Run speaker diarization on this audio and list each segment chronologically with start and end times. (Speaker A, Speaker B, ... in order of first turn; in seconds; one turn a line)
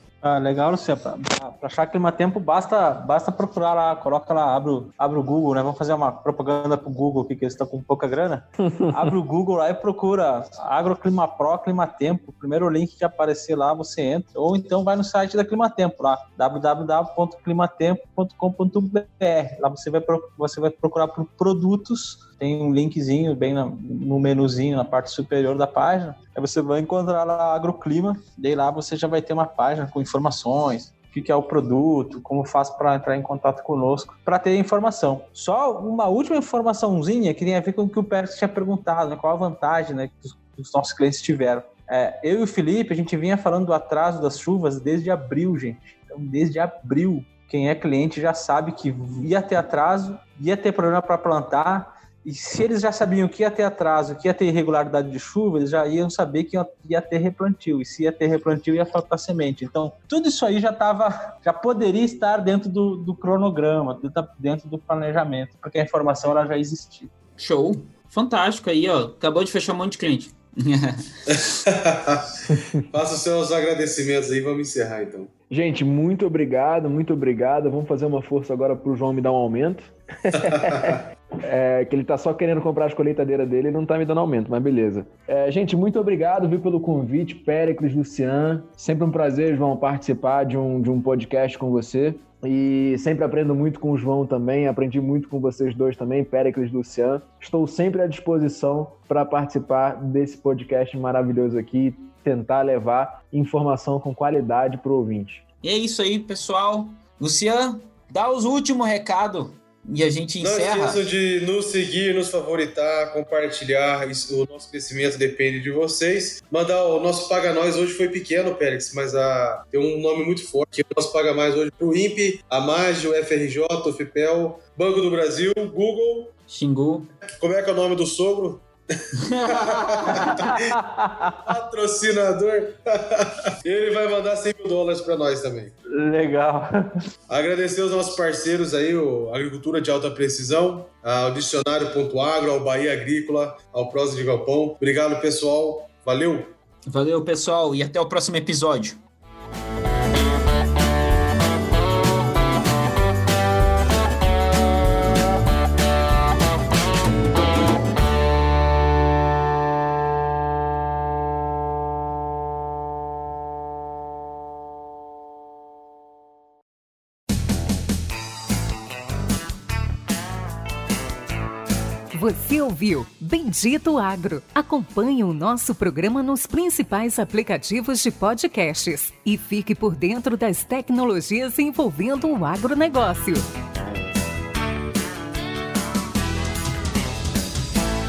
Speaker A: 0.2-67.1
Speaker B: 8.7-9.1
Speaker C: 67.4-71.3
Speaker D: 71.3-75.3
Speaker B: 72.5-72.8
Speaker B: 75.5-105.4
Speaker D: 80.3-81.0
Speaker C: 105.6-111.0
Speaker D: 110.4-126.3
Speaker C: 126.5-127.1
Speaker D: 127.4-130.8
Speaker C: 129.2-130.4
Speaker A: 130.3-131.4
Speaker D: 131.4-135.7
Speaker A: 135.9-136.9
Speaker D: 137.3-146.5
Speaker C: 146.8-149.0
Speaker E: 172.1-183.4